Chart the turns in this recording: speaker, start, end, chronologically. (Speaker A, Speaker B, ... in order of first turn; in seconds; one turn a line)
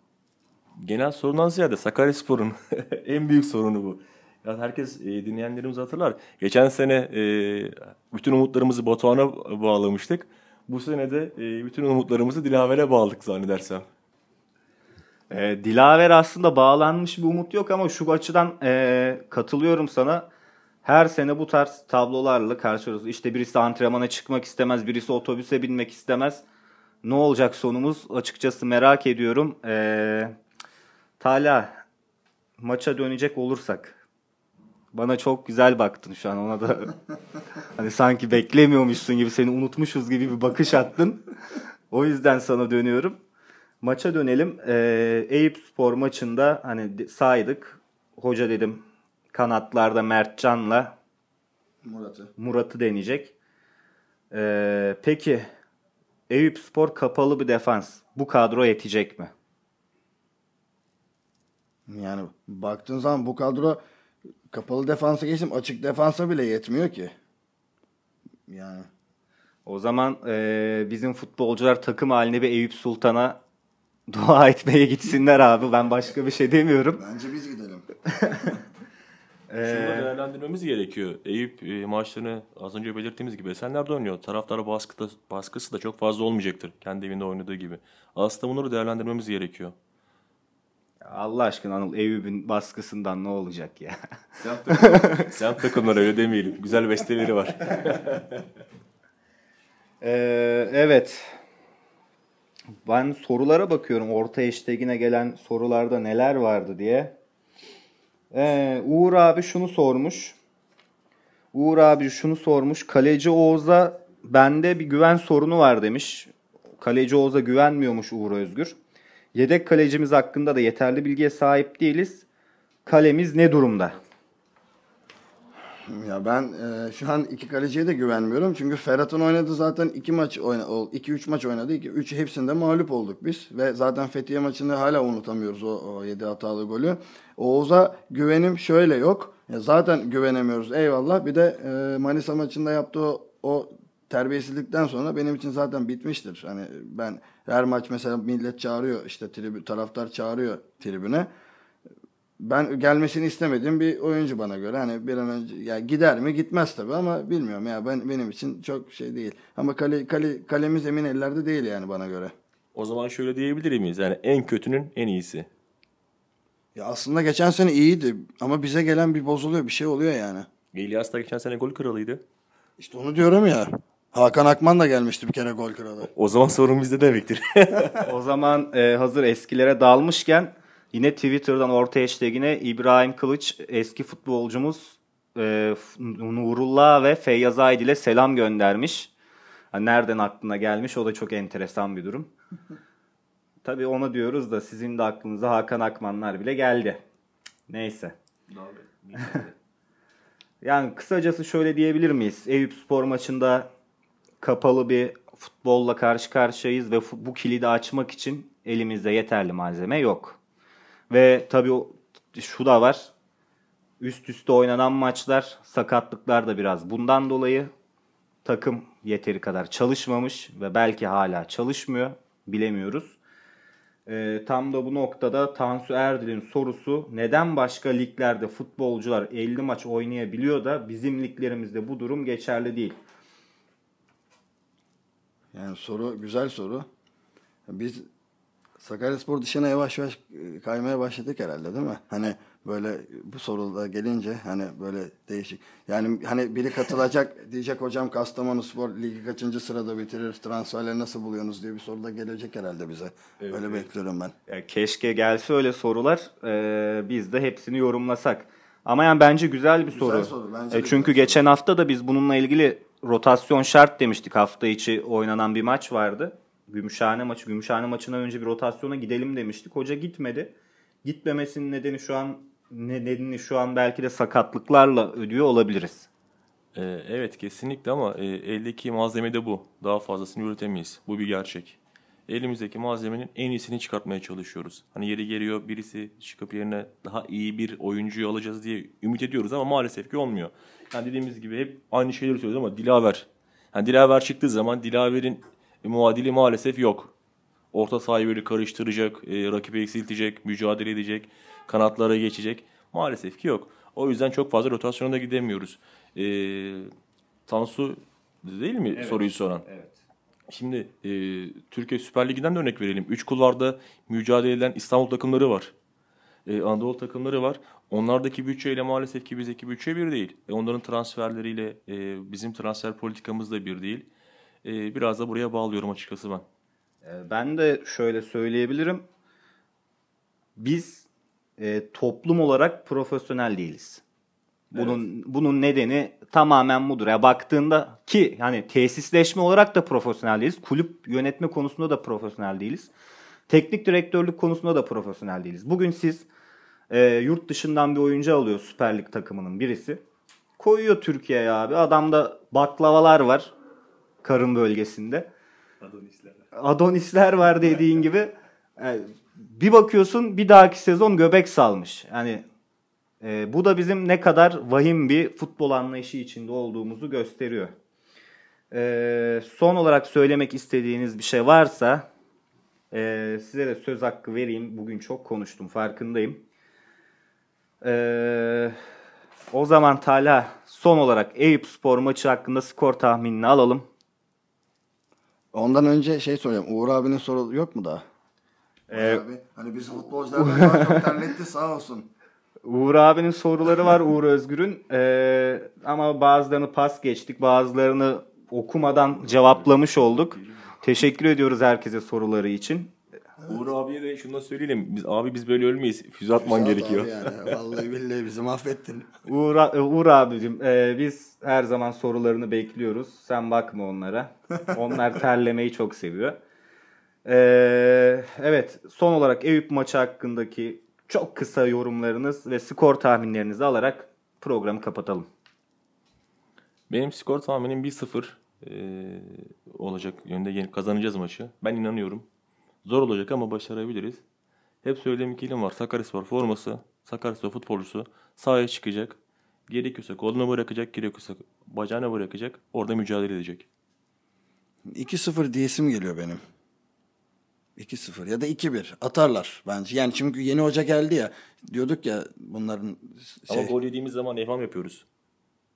Speaker A: 0.8-13.9
Speaker B: 15.3-20.3
Speaker B: 20.8-26.4
Speaker B: 27.0-30.4
Speaker B: 31.2-31.8
Speaker B: 32.6-34.0
Speaker B: 34.9-37.0
Speaker B: 37.8-41.3
Speaker B: 41.9-43.2
Speaker B: 43.8-50.9
Speaker C: 51.8-52.3
Speaker B: 52.4-53.3
Speaker B: 54.3-55.5
Speaker B: 56.3-59.3
Speaker C: 61.9-63.8
Speaker C: 64.5-67.1
Speaker C: 68.5-68.9
Speaker B: 69.7-73.4
Speaker B: 74.1-77.0
Speaker C: 77.0-77.9
Speaker B: 78.2-78.5
Speaker B: 79.5-80.1
Speaker A: 79.6-89.8
Speaker B: 91.0-94.0
Speaker A: 94.4-98.4
Speaker B: 94.7-95.3
Speaker B: 100.0-101.4
Speaker B: 102.9-107.2
Speaker B: 108.3-110.4
Speaker B: 111.5-118.8
Speaker B: 119.3-122.3
Speaker B: 122.9-124.0
Speaker C: 125.9-151.3
Speaker C: 152.4-162.3
Speaker A: 162.7-165.5
Speaker C: 166.8-170.5
Speaker A: 170.7-172.2
Speaker C: 172.8-176.1
Speaker A: 176.0-178.1
Speaker B: 178.0-189.1
Speaker B: 189.7-192.3
Speaker B: 193.6-197.0
Speaker B: 197.7-198.2
Speaker A: 198.5-199.6
Speaker B: 200.6-203.7
Speaker B: 204.4-210.4
Speaker B: 211.1-213.1
Speaker B: 214.0-217.7
Speaker B: 218.4-223.2
Speaker B: 224.1-233.0
Speaker C: 235.5-236.9
Speaker C: 237.7-238.1
Speaker C: 238.8-254.3
Speaker A: 253.4-253.9
Speaker B: 254.5-276.1
Speaker C: 259.9-261.4
Speaker A: 276.8-297.1
Speaker A: 297.7-306.9
Speaker A: 307.5-309.6
Speaker B: 308.9-310.0
Speaker A: 310.5-315.7
Speaker A: 316.5-324.1
Speaker A: 324.6-326.4
Speaker B: 327.0-329.1
Speaker B: 330.6-334.0
Speaker A: 334.7-335.0
Speaker B: 334.7-342.9
Speaker B: 343.5-346.3
Speaker B: 346.9-350.0
Speaker B: 350.6-353.5
Speaker B: 354.2-355.3
Speaker A: 355.8-356.4
Speaker B: 356.5-362.4
Speaker B: 363.2-367.8
Speaker B: 368.7-372.1
Speaker B: 372.9-376.4
Speaker B: 377.8-378.8
Speaker B: 379.5-383.9
Speaker C: 385.5-388.0
Speaker B: 388.9-389.2
Speaker C: 388.9-392.1
Speaker B: 390.4-391.1
Speaker B: 392.6-402.9
Speaker A: 399.3-400.6
Speaker A: 403.4-407.4
Speaker C: 406.4-409.1
Speaker B: 409.3-416.4
Speaker B: 417.2-425.3
Speaker A: 426.9-432.3
Speaker A: 432.9-434.2
Speaker A: 434.8-443.7
Speaker C: 444.9-446.4
Speaker C: 447.8-453.7
Speaker A: 453.5-455.1